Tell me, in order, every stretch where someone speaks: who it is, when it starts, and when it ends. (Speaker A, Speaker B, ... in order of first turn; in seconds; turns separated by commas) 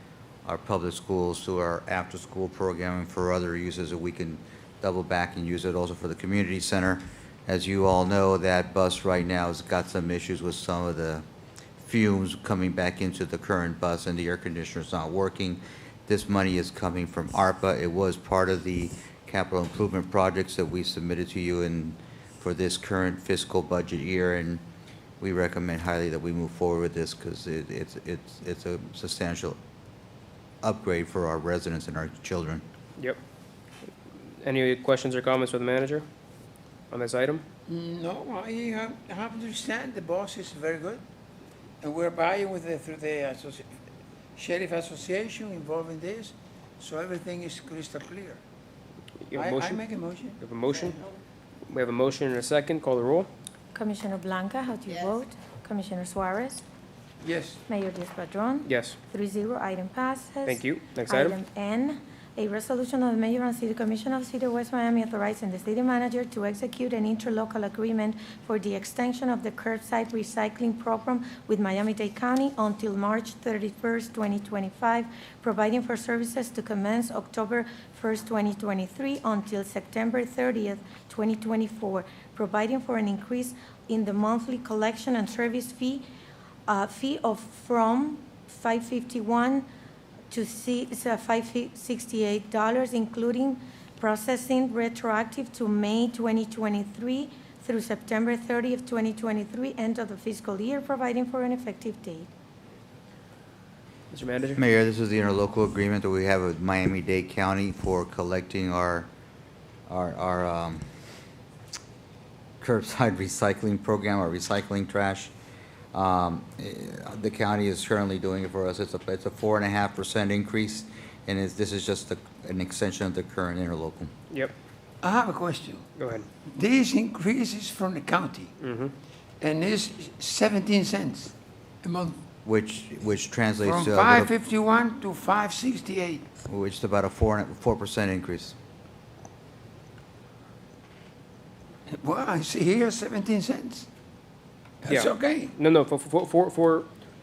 Speaker A: 0.4-11.2, Speaker A: 11.8-24.6, Speaker A: 25.2-29.6, Speaker A: 30.6-32.6, Speaker B: 34.4-36.0, Speaker B: 36.9-37.4, Speaker C: 37.7-41.0, Speaker C: 41.8-43.6, Speaker C: 44.4-48.4, Speaker B: 49.3-49.8, Speaker C: 49.3-50.4, Speaker B: 50.4-51.0, Speaker B: 51.7-53.3, Speaker D: 53.7-56.6, Speaker C: 57.2-57.6, Speaker D: 57.7-86.0, Speaker B: 58.6-59.0, Speaker B: 60.5-61.4, Speaker D: 86.7-89.7, Speaker D: 90.3-102.3, Speaker B: 104.1-104.6, Speaker A: 104.5-109.1, Speaker A: 109.9-110.8, Speaker A: 112.6-115.3, Speaker A: 115.9-124.1, Speaker C: 125.0-125.9, Speaker B: 126.0-126.2, Speaker C: 126.5-128.5, Speaker B: 128.6-128.9, Speaker C: 129.4-132.2, Speaker A: 132.4-134.3, Speaker C: 133.6-136.3, Speaker A: 136.5-138.6, Speaker C: 141.9-143.9, Speaker C: 144.8-145.5, Speaker B: 144.9-146.9